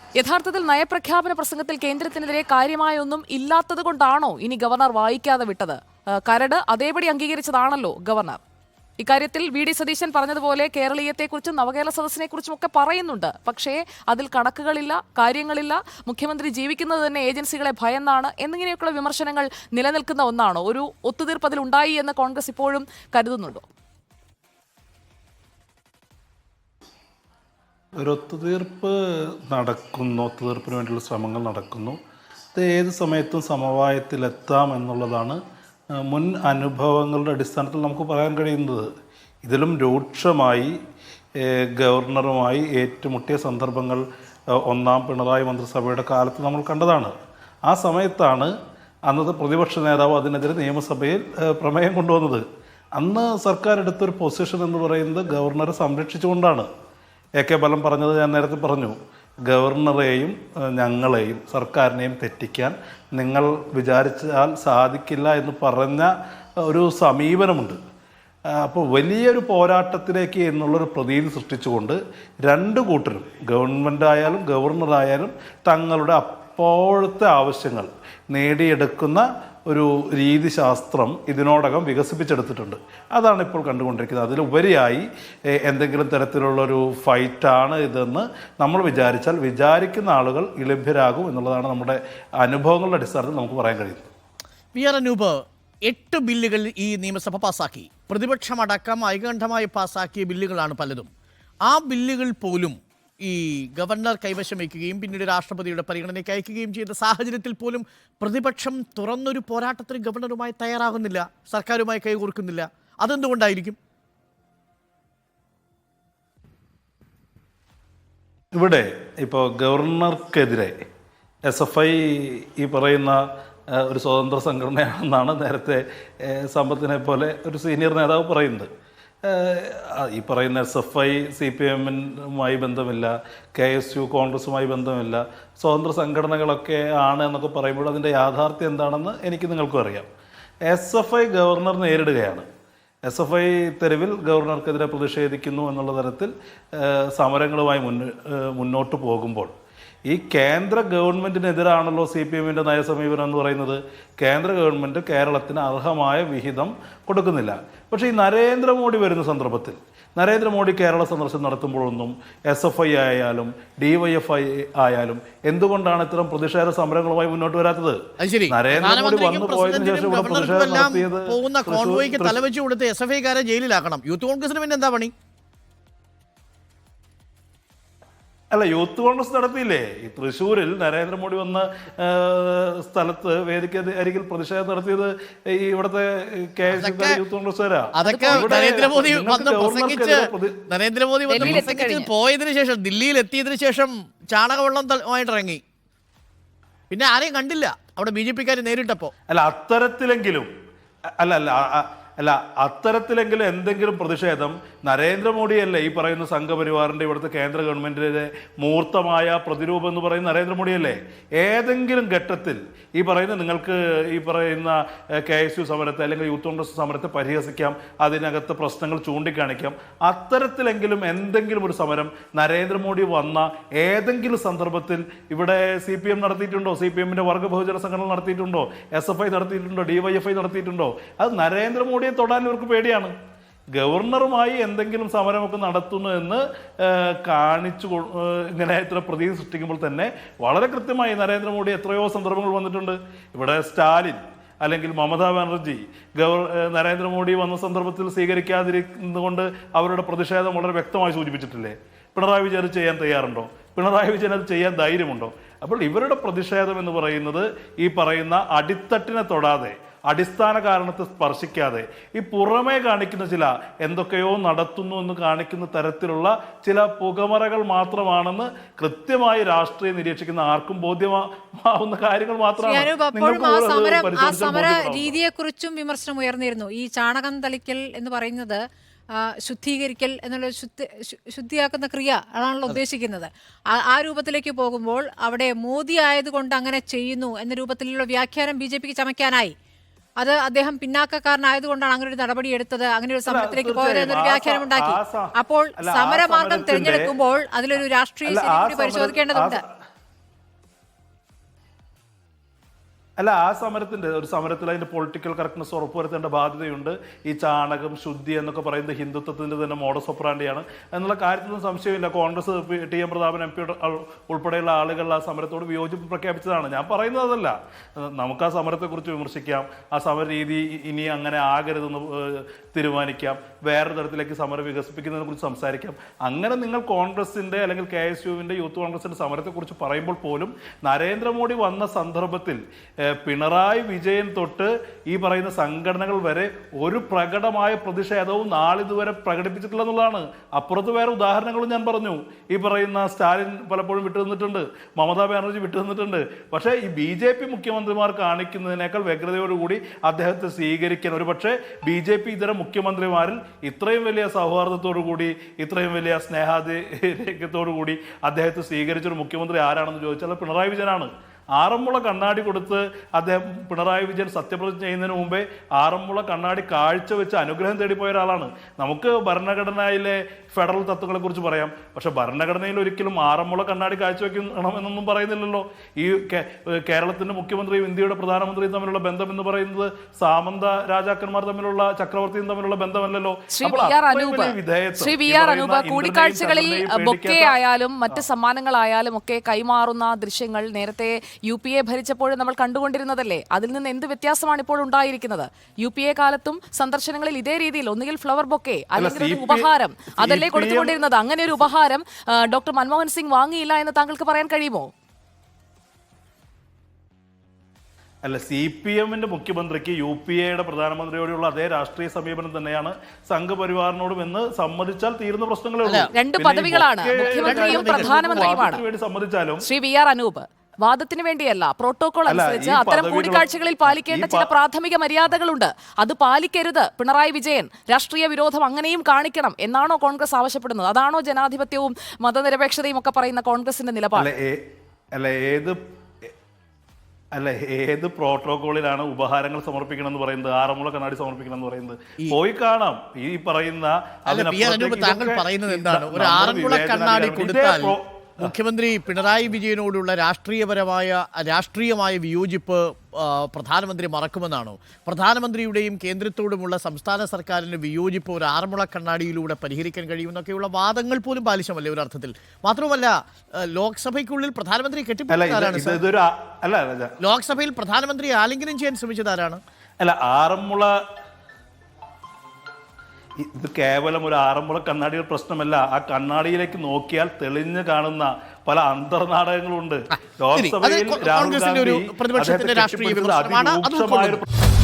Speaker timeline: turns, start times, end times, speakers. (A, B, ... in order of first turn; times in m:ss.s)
0:00.2-0:08.4 A
0:09.0-0:23.6 A
0:28.0-0:28.9 B
0:29.5-0:32.0 B
0:32.6-0:35.4 B
0:36.0-0:38.9 B
0:39.4-0:40.7 B
0:41.4-0:44.0 B
0:44.6-0:47.1 B
0:47.7-0:48.5 B
0:49.1-0:52.4 B
0:53.0-0:56.7 B
0:57.4-1:06.1 B
1:06.6-1:07.8 B
1:08.6-1:25.1 B
1:25.6-1:34.1 B
1:34.7-1:41.1 C
1:41.7-1:53.8 C
1:58.6-2:00.7 B
2:01.5-2:03.2 B
2:03.8-2:08.7 B
2:09.2-2:20.1 B
2:20.7-2:22.5 B
2:23.1-2:29.5 B
2:30.1-2:48.0 B
2:48.2-2:55.1 C
2:48.5-2:52.4 B
2:58.5-3:10.6 B
3:06.7-3:07.2 C
3:07.9-3:15.6 C
3:08.0-3:09.0 A
3:11.3-3:12.1 A
3:16.9-3:19.1 C
3:19.3-3:20.5 B
3:21.2-3:53.1 B
3:53.8-4:35.2 B
4:32.6-4:38.6 D
4:39.4-4:49.5 D
4:50.2-4:59.6 D
4:53.3-4:57.1 B
4:58.3-4:59.6 B
5:03.2-6:27.6 B
6:23.5-6:44.9 A
6:39.0-6:39.7 B
6:40.2-6:41.0 B
6:48.2-6:59.6 B
6:55.8-6:56.1 C
6:56.1-6:58.8 A
6:57.4-6:58.6 C
6:59.6-7:14.3 A
7:02.3-7:04.5 B
7:14.2-7:14.6 B
7:15.2-7:15.8 B
7:17.4-7:28.5 B
7:24.3-7:46.0 C
7:45.3-7:47.1 B
7:47.2-7:49.6 C
7:50.0-7:50.9 B
7:53.4-8:04.5 B
8:00.5-8:04.4 C